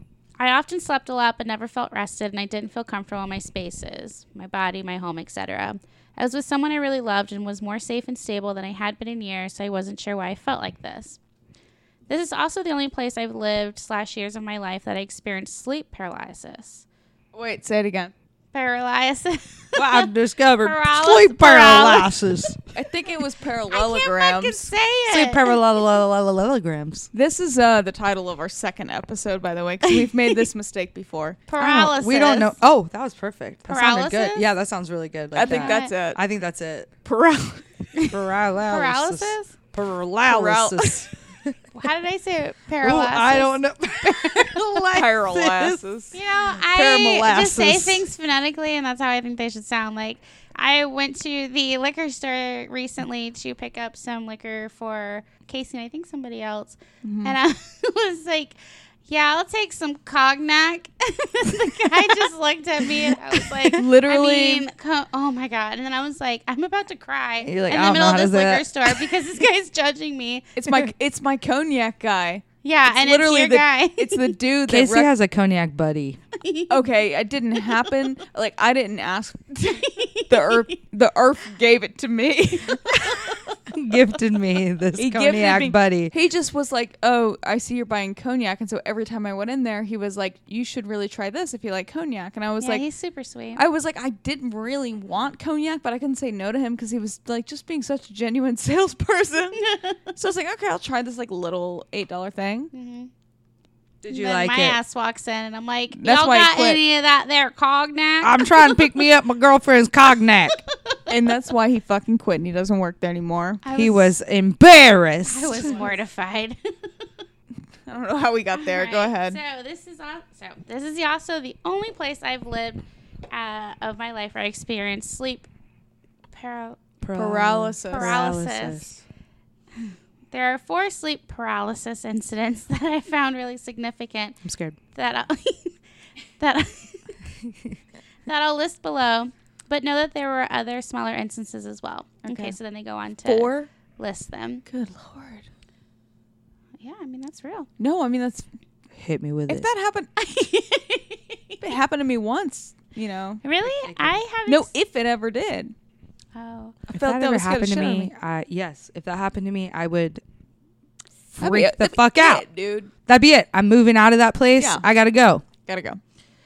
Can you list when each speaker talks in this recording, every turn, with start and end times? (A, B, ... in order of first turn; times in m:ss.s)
0:00.4-0:11.2 A
0:12.1-0:16.8 A
0:17.3-0:18.1 B
0:18.5-0:22.5 A
0:19.7-0:22.6 C
0:22.7-0:24.7 B
0:23.7-0:25.6 A
0:25.1-0:27.1 C
0:27.1-0:31.4 B
0:29.8-0:30.4 A
0:31.5-0:32.5 A
0:31.6-0:36.9 C
0:33.7-0:34.4 A
0:35.3-0:36.2 B
0:35.4-0:35.9 A
0:37.0-0:37.6 B
0:38.1-0:41.6 C
0:38.7-0:39.5 A
0:40.2-0:41.1 B
0:41.7-0:44.8 A
0:42.8-0:45.8 C
0:44.9-0:46.2 B
0:46.1-1:10.6 A
0:46.7-0:47.8 B
0:47.4-0:47.9 C
0:57.0-0:57.4 B
1:03.7-1:04.7 B
1:07.4-1:09.1 C
1:10.6-1:15.1 B
1:12.6-1:14.4 A
1:14.7-1:16.2 C
1:16.4-1:16.8 A
1:16.7-1:23.4 B
1:19.6-1:20.8 A
1:22.9-1:23.6 A
1:23.7-1:26.1 C
1:25.0-1:32.8 B
1:32.6-1:33.6 A
1:33.6-1:42.7 B
1:39.6-1:40.0 A
1:42.7-1:43.1 A
1:44.0-1:44.8 C
1:44.1-1:49.0 A
1:45.9-1:46.8 B
1:48.2-1:50.6 C
1:50.7-1:51.1 A
1:51.1-1:53.6 B
1:53.6-1:54.1 A
1:53.7-1:55.7 C
1:55.2-1:57.0 A
1:57.8-1:59.4 B
1:58.5-2:05.5 A
2:06.3-2:06.8 A
2:07.0-2:09.0 C
2:07.1-2:08.2 B
2:07.9-2:08.9 A
2:09.8-2:14.4 A
2:14.4-2:14.8 C
2:14.9-2:15.8 A
2:16.4-2:17.2 A
2:18.2-2:24.6 A
2:22.2-2:22.6 B
2:23.2-2:23.7 B
2:24.6-2:25.4 B
2:26.8-2:27.7 A
2:27.8-2:28.5 B
2:28.9-2:29.7 C
2:29.5-2:30.1 B
2:30.2-2:31.6 A
2:31.6-2:33.4 B
2:33.4-2:34.7 A
2:33.6-2:34.2 C
2:34.4-2:35.7 B
2:36.3-2:36.8 A
2:36.9-2:38.1 B
2:36.9-2:40.2 C
2:41.3-2:42.4 C
2:41.4-2:42.9 B
2:43.0-2:45.4 C
2:44.6-2:44.8 B
2:45.6-2:46.0 B